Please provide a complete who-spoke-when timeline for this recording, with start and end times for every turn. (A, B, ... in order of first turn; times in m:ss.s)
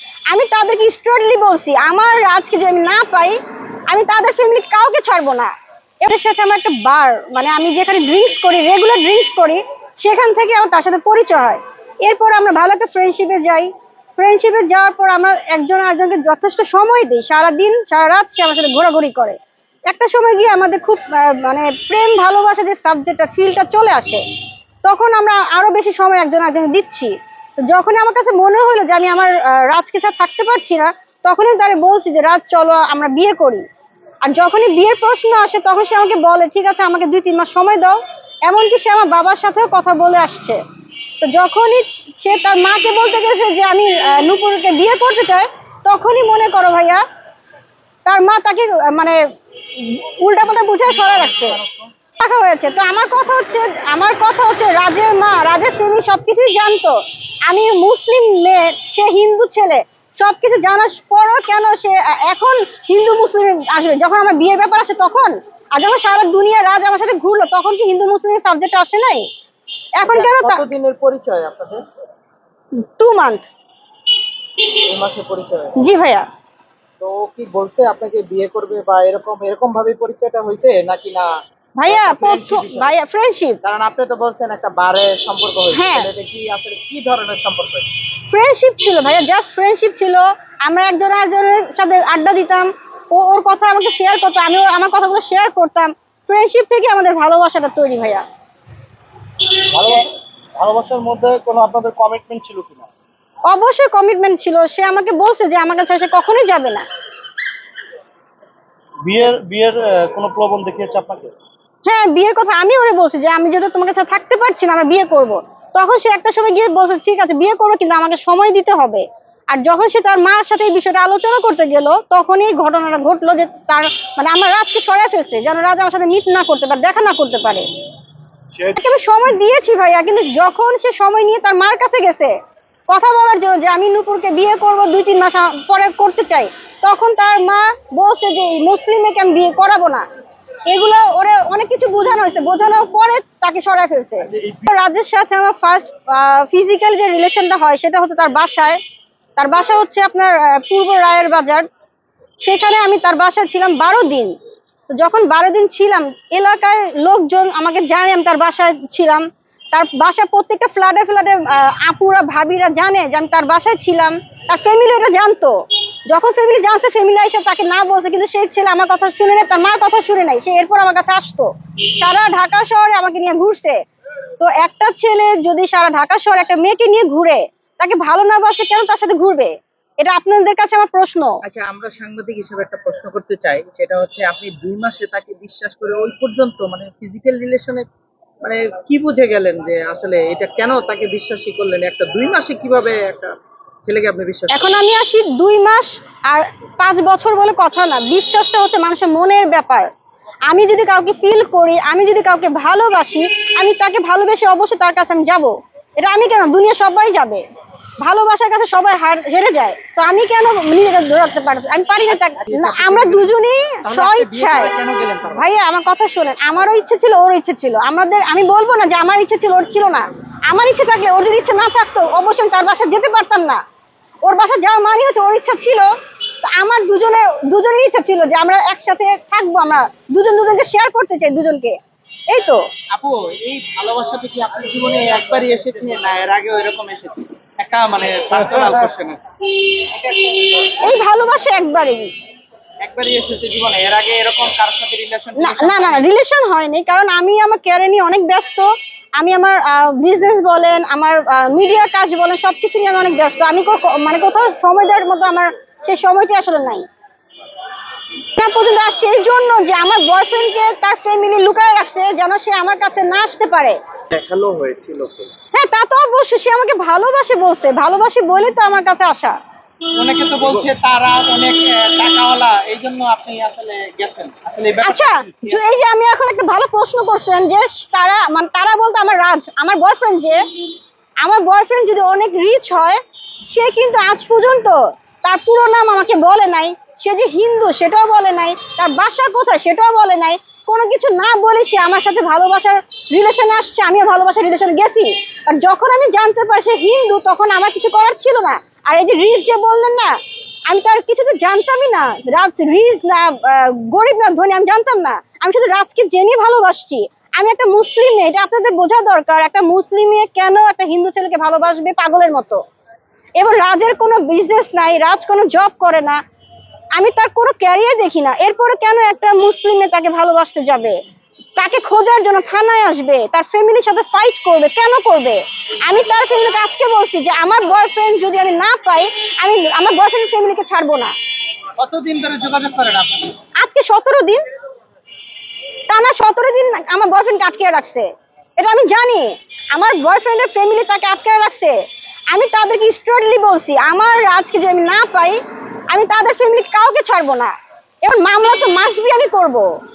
0:00.3-0:24.2 A
0:24.8-0:27.1 A
0:27.7-0:33.7 A
0:34.2-0:40.6 A
0:41.2-0:47.0 A
0:48.0-0:49.2 A
0:49.8-0:51.6 A
0:50.9-0:51.9 B
0:52.2-1:09.3 A
1:10.0-1:10.7 A
1:10.0-1:11.8 B
1:12.8-1:13.4 A
1:14.8-1:15.8 B
1:15.8-1:16.3 A
1:17.0-1:21.4 B
1:21.8-1:23.6 A
1:21.9-1:22.9 B
1:23.6-1:27.9 B
1:25.7-1:26.1 A
1:28.3-1:38.2 A
1:39.6-1:42.9 C
1:43.5-1:46.9 A
1:49.0-1:51.3 C
1:51.9-2:07.7 A
2:08.6-2:12.4 A
2:12.9-2:20.1 A
2:20.7-2:28.8 A
2:29.4-2:31.7 A
2:32.4-2:34.3 A
2:35.0-2:53.8 A
2:54.4-3:01.4 A
3:01.4-3:07.9 B
3:08.4-3:13.3 B
3:13.8-3:14.7 B
3:14.5-3:19.9 A
3:20.5-3:27.4 A
3:28.0-3:34.7 A
3:32.1-3:33.3 B
3:33.8-3:35.4 B
3:35.2-3:43.6 A
3:44.2-3:45.9 A
3:46.4-3:51.8 A
3:52.3-3:52.6 A
3:52.9-4:00.8 B
4:00.7-4:02.1 A
4:02.8-4:06.1 B
4:05.4-4:16.9 A
4:18.4-4:23.8 A
4:24.1-4:25.3 C
4:25.5-4:29.4 A
4:29.9-4:35.6 B
4:34.8-4:40.4 A
4:41.2-5:00.1 A
5:00.7-5:12.6 A
5:13.4-5:16.2 A
5:17.0-5:21.0 A
5:21.6-5:31.1 A
5:31.8-5:33.4 B
5:33.6-5:34.4 A
5:35.9-5:49.7 A